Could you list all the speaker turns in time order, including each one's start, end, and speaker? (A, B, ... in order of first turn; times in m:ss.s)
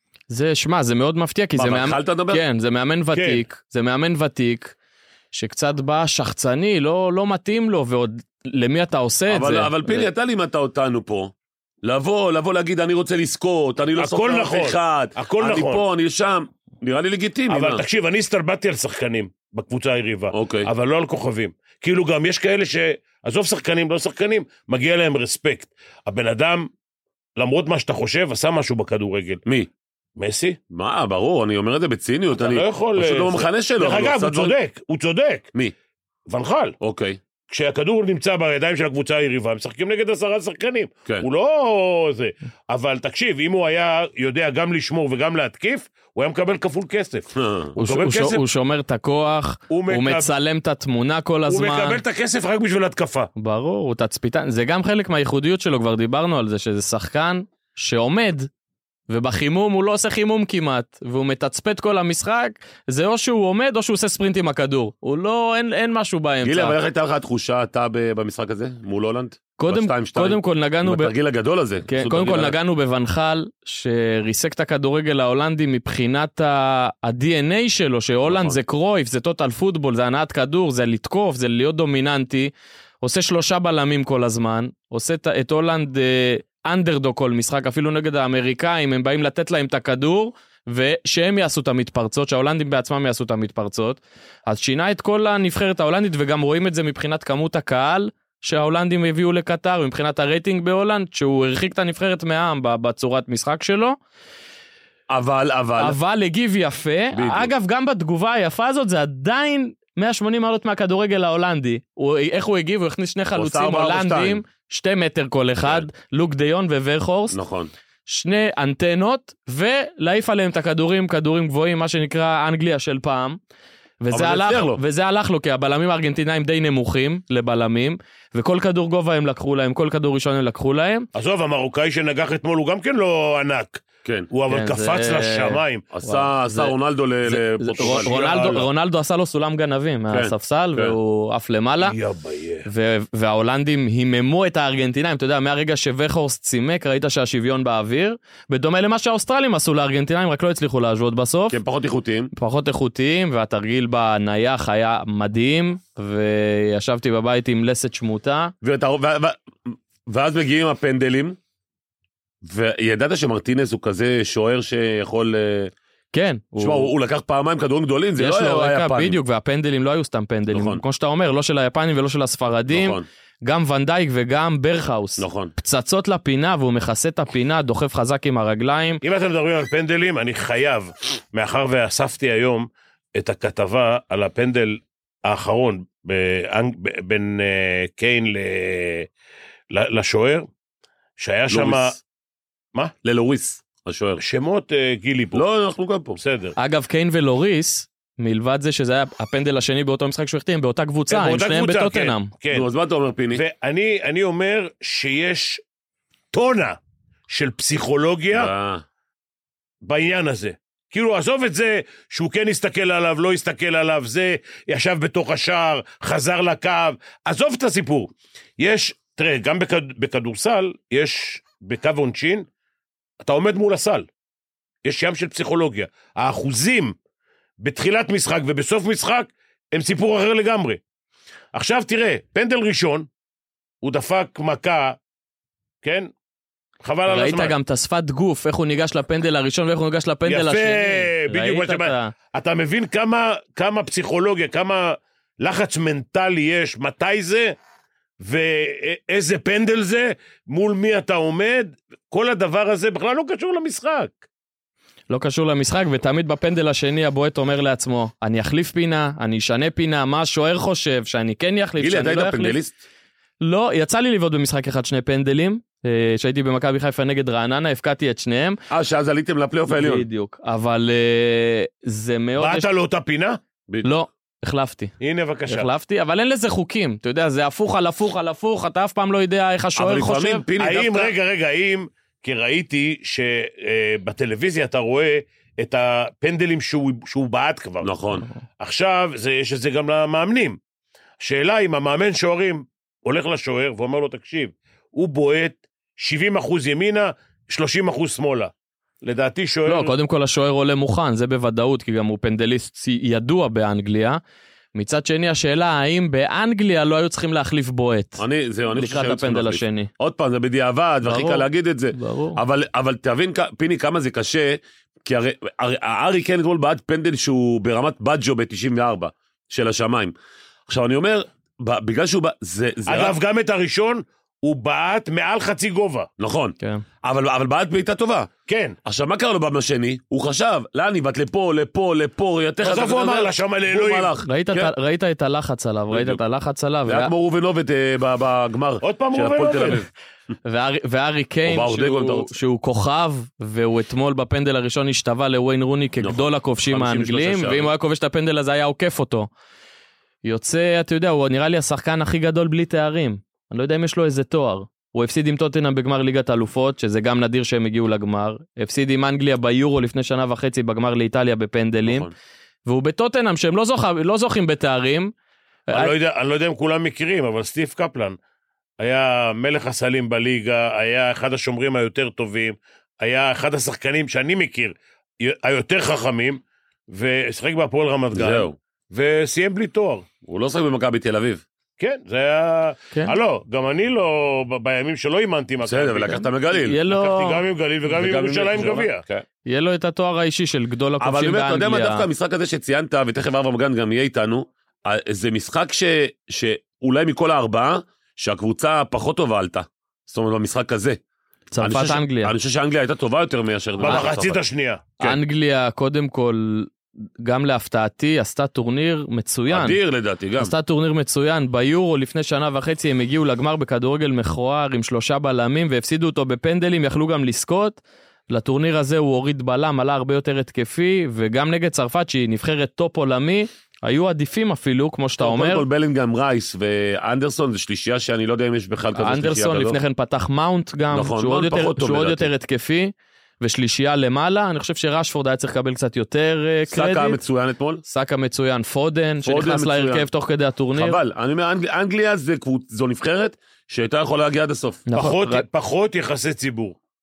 0:00.3-0:04.8 A
0:01.6-0:02.4 B
0:03.2-0:03.4 C
0:05.3-0:10.1 A
0:09.3-0:17.8 B
0:14.0-0:15.8 C
0:17.5-0:26.7 C
0:20.3-0:20.7 B
0:27.4-0:29.4 C
0:30.2-0:30.6 C
0:30.7-0:34.6 B
0:32.4-0:35.5 C
0:36.3-0:36.8 C
0:36.8-0:37.2 B
0:37.5-0:48.4 C
0:47.4-0:47.7 B
0:47.8-0:52.0 A
0:49.7-0:50.3 C
0:51.5-0:53.3 C
0:53.4-0:58.5 A
0:59.1-1:06.8 A
1:06.4-1:12.6 B
1:09.6-1:11.1 A
1:11.9-1:44.0 A
1:18.3-1:18.6 B
1:45.1-1:46.0 B
1:45.8-1:57.4 A
1:47.2-1:47.5 B
1:53.4-1:54.4 B
1:57.3-1:57.7 B
1:58.1-2:03.4 A
2:04.0-2:11.1 A
2:04.1-2:04.8 B
2:11.2-2:15.8 C
2:14.0-2:14.3 B
2:14.5-2:22.0 A
2:15.9-2:18.1 B
2:17.8-2:18.7 C
2:20.1-2:21.0 B
2:21.8-2:22.7 C
2:22.7-2:31.6 A
2:31.5-2:32.3 B
2:32.3-2:38.5 A
2:38.6-2:41.4 B
2:42.4-2:45.7 B
2:46.1-2:46.9 A
2:46.6-2:49.2 B
2:48.2-2:59.0 A
2:50.5-2:50.8 B
2:52.7-2:53.0 B
2:55.2-2:55.5 B
2:59.0-3:09.1 C
3:09.7-3:10.5 C
3:11.2-3:12.0 C
3:11.5-3:11.9 B
3:13.0-3:14.2 B
3:14.2-3:15.4 C
3:15.3-3:16.2 B
3:16.2-3:16.6 C
3:16.6-3:22.3 A
3:21.1-3:22.7 C
3:22.5-3:23.4 B
3:23.3-3:25.6 C
3:26.3-3:28.5 C
3:28.3-3:28.8 B
3:29.8-3:42.5 C
3:43.2-3:44.1 C
3:44.8-3:47.0 C
3:47.6-3:50.8 C
3:51.5-3:53.1 C
3:53.8-3:55.0 C
3:55.8-3:56.1 C
3:56.8-3:57.6 C
3:57.1-4:02.1 A
4:00.3-4:07.6 C
4:08.2-4:14.2 C
4:15.1-4:22.6 A
4:21.8-4:22.8 B
4:23.4-4:28.6 A
4:28.7-4:30.0 B
4:29.7-4:32.7 A
4:32.4-4:33.4 C
4:33.8-4:34.9 A
4:35.0-4:35.7 C
4:35.5-4:40.4 A
4:39.8-4:41.1 B
4:40.6-4:47.9 C
4:47.8-4:48.3 B
4:48.6-4:50.6 C
4:51.2-4:59.9 C
4:59.7-5:04.2 A
5:04.7-5:08.2 A
5:08.2-5:20.1 B
5:08.7-5:09.9 A
5:11.0-5:12.4 A
5:20.7-5:23.2 B
5:22.9-5:26.1 C
5:26.2-5:28.3 B
5:28.5-5:28.8 C
5:28.8-5:34.7 B
5:32.6-5:34.1 C
5:34.2-5:37.1 A
5:35.9-5:36.2 B
5:36.9-5:39.9 B
5:38.8-5:39.8 C
5:40.4-5:49.3 A
5:41.5-5:42.4 B
5:46.0-5:47.7 B
5:50.2-6:02.1 A
6:01.8-6:02.1 B
6:02.7-6:05.1 A
6:05.7-6:05.9 A
6:05.7-6:08.2 C
6:08.8-6:20.1 C
6:18.1-6:18.6 B
6:20.2-6:21.4 B
6:21.8-6:26.2 C
6:25.6-6:26.8 B
6:26.1-6:27.4 A
6:26.9-6:29.0 C
6:27.9-6:29.2 B
6:29.5-6:32.1 A
6:31.0-6:41.0 B
6:41.5-6:42.3 A
6:41.6-6:44.4 B
6:43.8-6:44.9 C
6:45.0-6:49.8 A
6:49.5-6:50.5 B
6:50.4-7:05.6 A
7:05.2-7:09.8 B
7:09.0-7:17.2 A
7:10.9-7:12.3 B
7:16.7-7:17.8 B
7:17.8-7:21.0 A
7:19.2-7:20.1 B
7:20.8-7:24.9 B
7:24.9-7:25.4 A
7:24.9-7:26.8 C